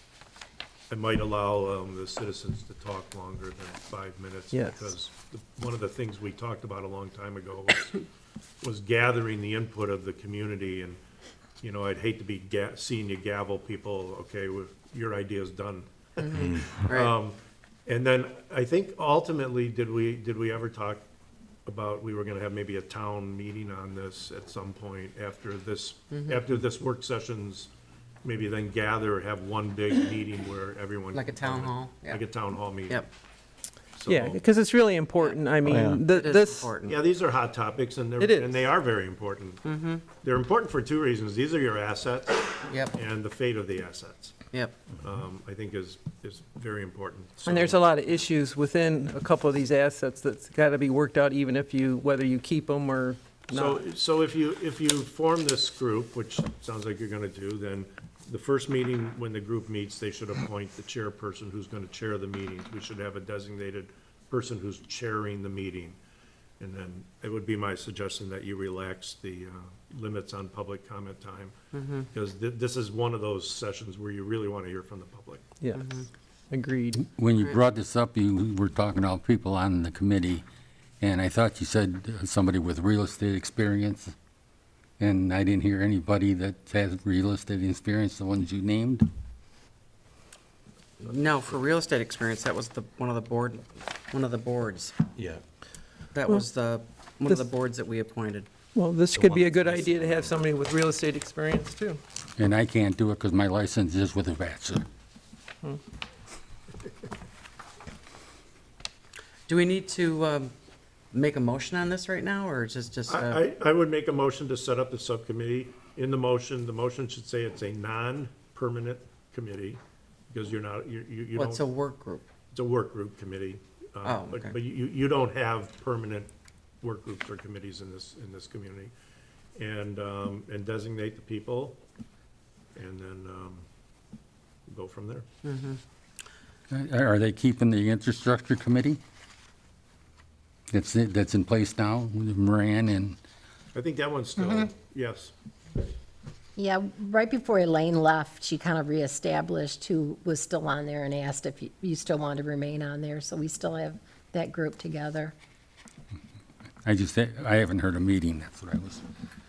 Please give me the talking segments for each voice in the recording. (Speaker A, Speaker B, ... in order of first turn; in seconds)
Speaker A: 0.9-8.1, 8.6-11.0, 11.6-16.2, 16.9-21.0, 21.7-27.7, 28.2-33.0, 33.9-34.4, 36.9-39.6, 40.2-44.4, 45.0-47.8, 53.5-66.0, 66.6-71.5, 72.1-75.4, 99.2-100.3, 113.1-121.7, 122.5-126.3, 126.8-128.9, 129.6-131.8, 132.8-133.7, 134.7-135.3, 143.7-145.3
Speaker B: 4.5-4.9, 34.1-36.7, 38.2-38.7, 47.5-53.8, 75.6-75.9, 76.5-77.0, 98.8-102.0
Speaker C: 16.2-17.1, 31.1-32.2, 32.8-33.1, 35.2-37.0, 39.6-40.0, 44.5-44.8, 71.7-72.1, 75.8-76.1, 91.0-95.0, 96.1-98.5, 109.5-110.5, 111.1-113.4, 121.3-122.3, 124.0-124.6, 135.4-135.8
Speaker D: 77.0-80.4, 81.0-84.1, 85.0-89.1, 102.4-104.9, 136.7-139.0, 140.7-143.2, 156.8-159.0
Speaker E: 144.4-144.7, 146.6-155.3